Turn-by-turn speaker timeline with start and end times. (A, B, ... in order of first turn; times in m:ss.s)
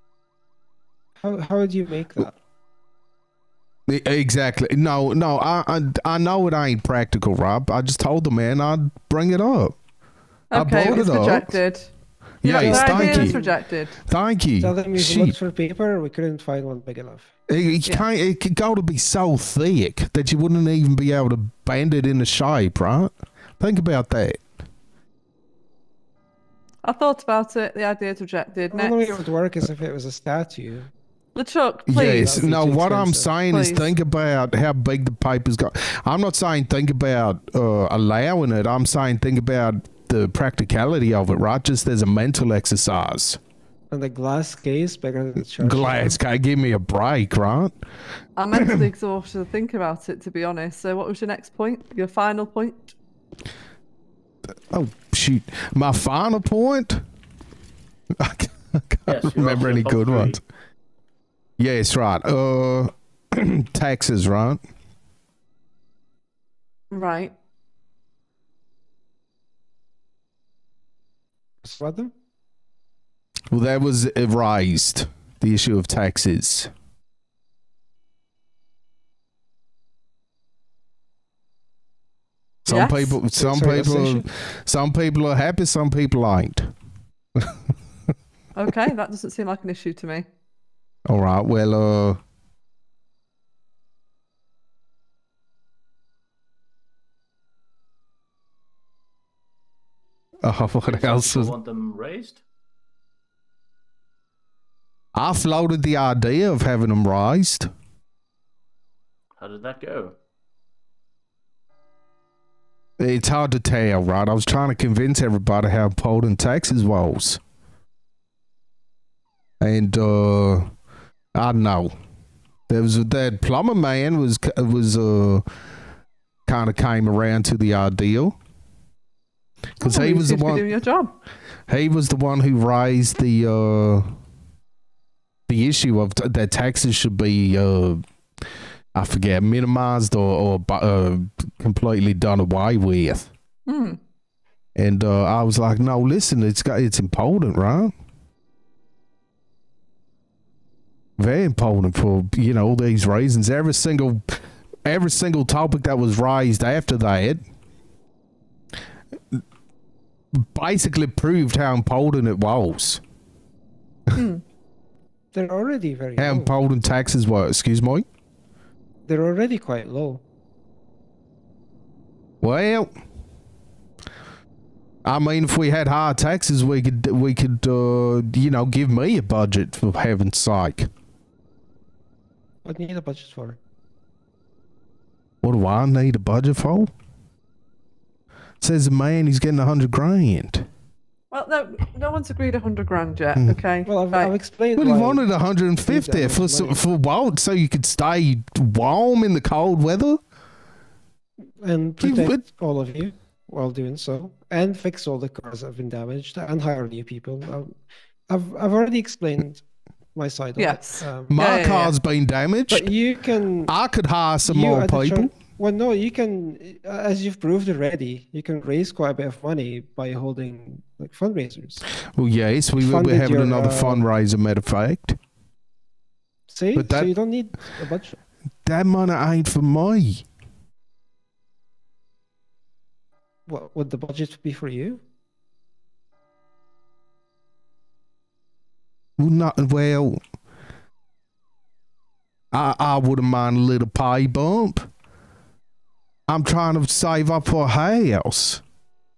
0:01.2-0:02.3 A
0:03.9-0:09.8 B
0:10.5-0:11.9 C
0:10.5-0:11.6 B
0:12.4-0:13.4 B
0:12.4-0:14.0 C
0:12.5-0:13.6 A
0:14.0-0:15.4 B
0:14.6-0:17.3 A
0:17.5-0:24.4 B
0:26.8-0:29.2 C
0:28.7-0:30.9 A
0:31.4-0:32.3 C
0:31.9-0:43.4 B
0:32.0-0:33.3 A
0:33.5-0:33.9 C
0:43.9-0:46.2 A
0:45.6-0:47.7 B
0:48.4-0:52.9 C
0:48.5-0:48.9 B
0:54.7-0:57.0 B
0:58.2-1:00.4 B
0:59.1-1:00.4 D
1:01.6-1:04.6 B
1:06.9-1:07.3 C
1:11.6-1:12.1 A
1:13.5-1:16.7 B
1:22.7-1:26.7 B
1:22.7-1:23.2 C
1:23.4-1:24.3 A
1:28.6-1:30.3 C
1:31.1-1:32.2 B
1:40.4-1:41.6 B
1:40.9-1:42.4 D
1:45.2-1:47.7 B
1:49.4-1:50.2 D
1:53.0-1:57.4 B
1:59.6-2:00.6 B
2:01.4-2:01.9 B
2:02.7-2:05.4 B
2:06.5-2:08.4 B
2:09.8-2:11.2 C
2:09.8-2:10.7 B
2:11.7-2:14.0 B
2:15.5-2:18.0 B
2:18.9-2:23.3 B
2:23.7-2:24.0 C
2:24.8-2:27.9 B
2:31.2-2:37.4 B
2:40.4-2:43.0 B
2:44.2-2:44.4 C
2:45.3-2:46.5 A
2:46.2-2:48.0 B
2:49.1-2:50.2 A
2:52.4-2:52.9 B
2:55.0-3:00.9 B
3:02.6-3:03.6 A
3:05.4-3:06.9 B
3:08.6-3:10.6 B
3:11.3-3:14.3 C
3:13.8-3:15.3 A
3:14.8-3:20.2 B
3:15.9-3:16.8 A
3:21.6-3:27.8 A
3:22.0-3:22.4 B
3:28.3-3:29.6 A
3:30.2-3:31.4 A
3:30.6-3:32.0 C
3:31.3-3:32.9 B
3:32.7-3:33.7 A
3:33.7-3:35.3 B
3:34.4-3:41.8 A
3:42.2-3:45.2 B
3:42.8-3:44.0 A
3:46.5-3:48.2 A
3:46.8-3:47.1 B
3:48.6-3:50.2 B
3:53.5-3:55.0 A
3:59.2-4:00.2 B
4:02.5-4:04.9 B
4:06.3-4:08.6 B